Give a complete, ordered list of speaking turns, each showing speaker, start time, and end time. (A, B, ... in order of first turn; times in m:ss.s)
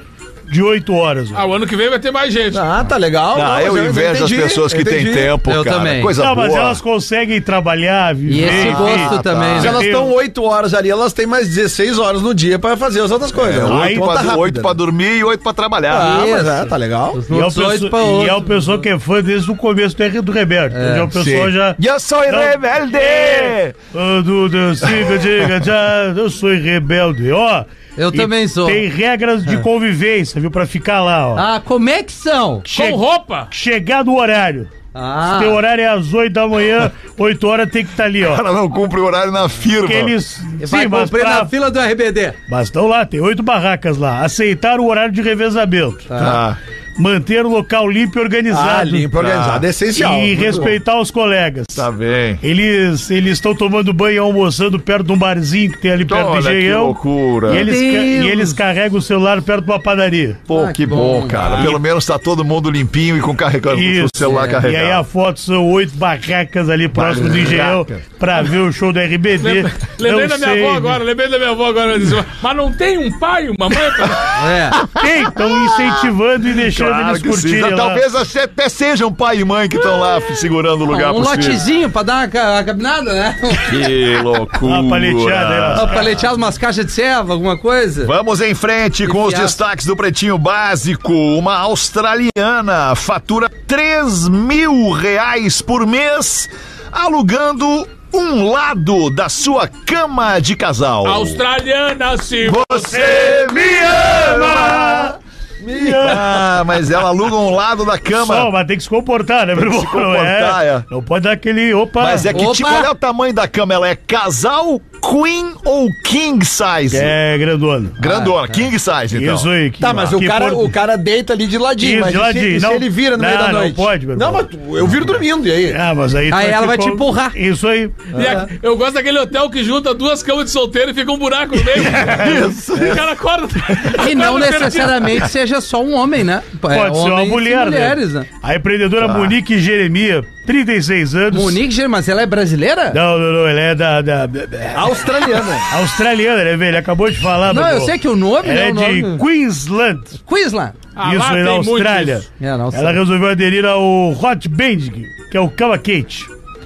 0:00.5-0:01.5 A
0:01.3-0:02.7 B
0:02.5-0:05.3 C
0:03.3-0:06.8 D
0:05.4-0:06.1 E
0:06.2-0:10.1 A
0:08.3-0:09.8 E
0:08.4-0:09.8 D
0:09.6-0:14.8 C
0:13.4-0:16.2 D
0:13.6-0:14.1 A
0:15.9-0:17.2 C
0:16.0-0:18.8 E
0:17.3-0:31.4 A
0:20.7-0:21.1 E
0:21.2-0:23.8 D
0:28.0-0:28.8 E
0:31.4-0:32.7 E
0:32.7-0:34.7 A
0:32.7-0:33.5 B
0:34.9-0:35.6 E
0:35.3-0:38.4 A
0:38.2-0:40.1 D
0:39.8-0:41.5 A
0:40.6-0:42.4 E
0:42.5-0:46.4 A
0:46.1-0:46.4 E
0:46.2-0:46.6 D
0:47.0-0:49.3 A
0:48.5-0:50.7 C
0:49.3-0:49.6 D
0:49.9-0:51.9 A
0:51.8-0:52.4 D
0:52.4-1:00.4 A
0:56.0-0:57.7 D
0:57.5-0:58.6 E
1:00.5-1:05.0 D
1:00.5-1:01.7 E
1:01.4-1:01.8 B
1:03.7-1:11.0 A
1:04.2-1:04.6 E
1:06.9-1:08.0 D
1:07.2-1:07.6 E
1:09.4-1:14.4 B
1:14.4-1:14.8 E
1:14.8-1:16.0 D
1:14.8-1:18.0 A
1:16.6-1:21.6 D
1:20.9-1:23.9 E
1:23.6-1:26.2 D
1:24.6-1:26.0 A
1:25.8-1:28.1 E
1:28.0-1:41.4 D
1:29.0-1:29.6 E
1:41.0-1:43.2 B
1:42.4-1:45.2 D
1:42.9-1:45.2 A
1:45.6-1:46.4 C
1:45.7-1:46.4 A
1:46.0-1:48.5 D
1:48.1-1:52.3 A
1:49.6-1:50.9 D
1:52.0-1:57.1 D
1:52.3-1:52.9 E
1:56.9-1:58.0 A
1:58.0-1:59.5 D
1:58.0-1:58.7 E
1:59.1-2:00.8 A
1:59.8-2:05.8 C
2:01.8-2:04.5 A
2:05.7-2:08.3 A
2:06.3-2:07.4 E
2:08.1-2:15.2 B
2:12.0-2:13.0 D
2:14.0-2:18.3 E
2:16.7-2:21.6 A
2:19.0-2:19.4 D
2:21.3-2:23.0 E
2:22.9-2:25.0 A
2:24.7-2:25.7 C
2:25.7-2:30.2 A
2:27.5-2:29.2 E
2:30.2-2:30.8 E
2:31.0-2:32.2 B
2:31.0-2:36.3 A
2:32.4-2:33.0 E